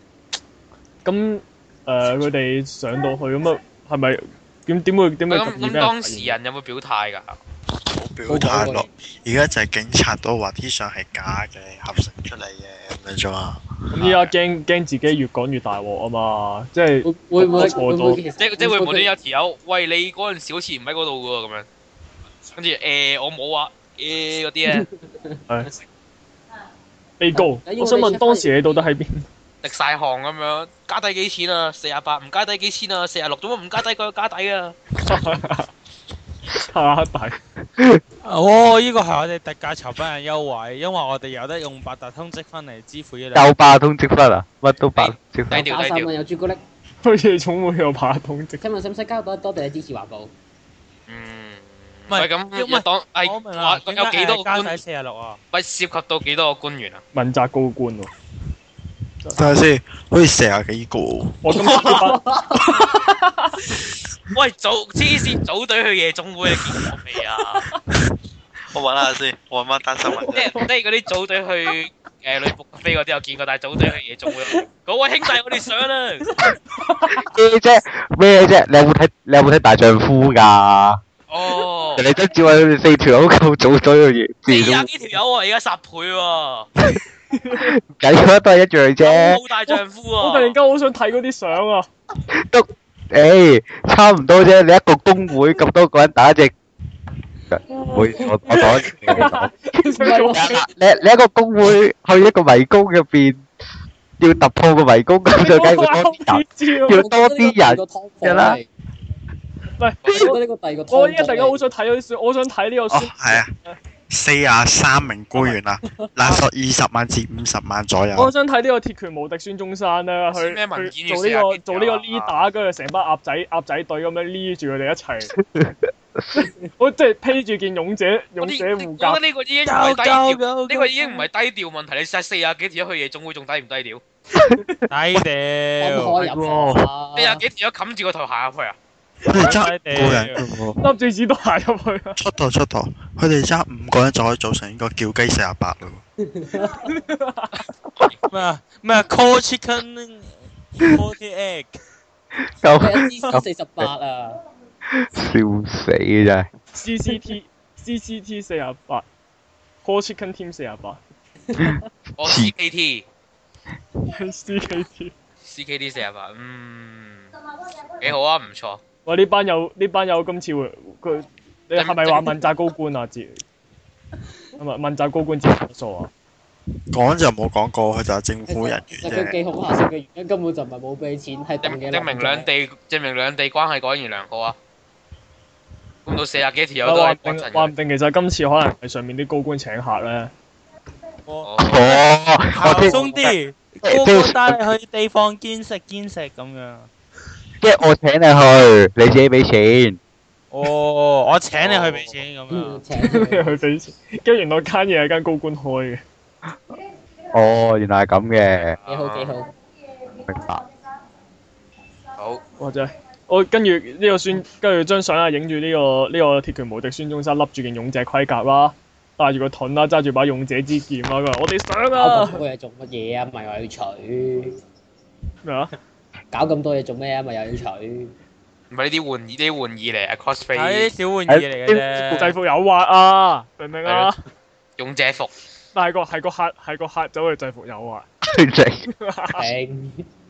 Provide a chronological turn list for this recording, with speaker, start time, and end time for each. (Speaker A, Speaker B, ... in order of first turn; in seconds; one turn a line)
Speaker A: 1.0-6.3
Speaker B: 5.3-7.4
Speaker C: 7.9-14.1
Speaker D: 8.3-8.9
Speaker A: 13.9-18.2
Speaker B: 14.0-14.3
Speaker D: 17.0-19.1
Speaker B: 18.4-21.7
Speaker B: 22.5-24.9
Speaker D: 24.7-25.4
Speaker A: 27.2-29.2
Speaker D: 27.3-28.8
Speaker B: 29.6-34.8
Speaker A: 35.0-35.7
Speaker A: 36.5-37.4
Speaker E: 38.2-43.7
Speaker F: 43.3-45.6
Speaker B: 45.0-46.1
Speaker D: 45.5-46.6
Speaker A: 47.0-48.6
Speaker D: 48.6-50.3
Speaker B: 51.1-54.8
Speaker E: 52.1-55.4
Speaker B: 55.5-57.0
Speaker A: 57.1-58.1
Speaker C: 59.3-61.6
Speaker A: 61.4-62.2
Speaker B: 61.5-62.0
Speaker D: 61.8-62.9
Speaker A: 62.9-63.6
Speaker B: 64.3-67.7
Speaker C: 68.7-70.5
Speaker A: 70.2-70.6
Speaker B: 70.3-76.3
Speaker A: 76.7-77.2
Speaker F: 77.3-81.0
Speaker B: 81.3-82.0
Speaker F: 82.0-84.9
Speaker B: 84.5-86.7
Speaker A: 87.4-87.7
Speaker F: 87.5-89.4
Speaker B: 89.0-90.5
Speaker A: 89.7-91.9
Speaker F: 92.3-96.5
Speaker F: 97.5-103.4
Speaker A: 97.7-100.6
Speaker D: 98.2-99.3
Speaker D: 100.0-100.7
Speaker F: 104.2-108.6
Speaker A: 105.3-107.0
Speaker D: 106.9-108.7
Speaker A: 109.8-110.4
Speaker D: 110.1-111.6
Speaker A: 110.9-113.8
Speaker C: 112.9-113.5
Speaker C: 114.1-118.3
Speaker D: 115.9-116.1
Speaker A: 118.1-125.3
Speaker B: 120.3-122.3
Speaker F: 125.4-126.3
Speaker A: 126.8-129.2
Speaker B: 128.4-134.0
Speaker E: 129.7-131.3
Speaker E: 134.9-136.4
Speaker D: 135.8-137.4
Speaker C: 136.4-136.8
Speaker B: 137.2-138.8
Speaker C: 139.2-140.4
Speaker E: 139.4-140.4
Speaker F: 140.4-140.7
Speaker A: 140.8-142.2
Speaker C: 142.2-146.0
Speaker D: 146.2-146.9
Speaker A: 146.8-147.6
Speaker E: 148.3-151.7
Speaker F: 152.6-153.9
Speaker D: 152.7-154.4
Speaker F: 154.9-156.5
Speaker A: 156.7-159.0
Speaker A: 159.8-161.0
Speaker D: 161.5-161.9
Speaker F: 161.6-162.5
Speaker B: 162.2-163.0
Speaker A: 164.1-165.1
Speaker B: 165.4-167.3
Speaker B: 168.0-168.8
Speaker A: 169.1-173.4
Speaker B: 171.8-172.4
Speaker A: 174.6-176.1
Speaker C: 176.9-179.4
Speaker D: 178.5-182.5
Speaker B: 181.6-184.6
Speaker B: 186.1-187.7
Speaker A: 186.8-190.3
Speaker B: 191.4-192.0
Speaker F: 191.6-193.0
Speaker E: 192.5-196.9
Speaker F: 193.8-194.6
Speaker F: 197.6-200.0
Speaker E: 200.5-202.8
Speaker B: 201.5-202.1
Speaker D: 202.5-203.5
Speaker A: 203.0-206.0
Speaker F: 207.3-208.8
Speaker B: 208.6-209.3
Speaker D: 208.9-209.5
Speaker F: 210.2-210.6
Speaker A: 212.6-222.4
Speaker D: 221.9-224.6
Speaker A: 225.4-225.7
Speaker D: 226.3-228.1
Speaker B: 228.7-230.9
Speaker E: 230.5-232.3
Speaker F: 231.3-232.2
Speaker A: 232.2-234.2
Speaker B: 233.8-234.1
Speaker B: 234.8-235.3
Speaker A: 235.7-238.1
Speaker F: 238.2-238.9
Speaker A: 238.9-239.5
Speaker D: 239.3-240.0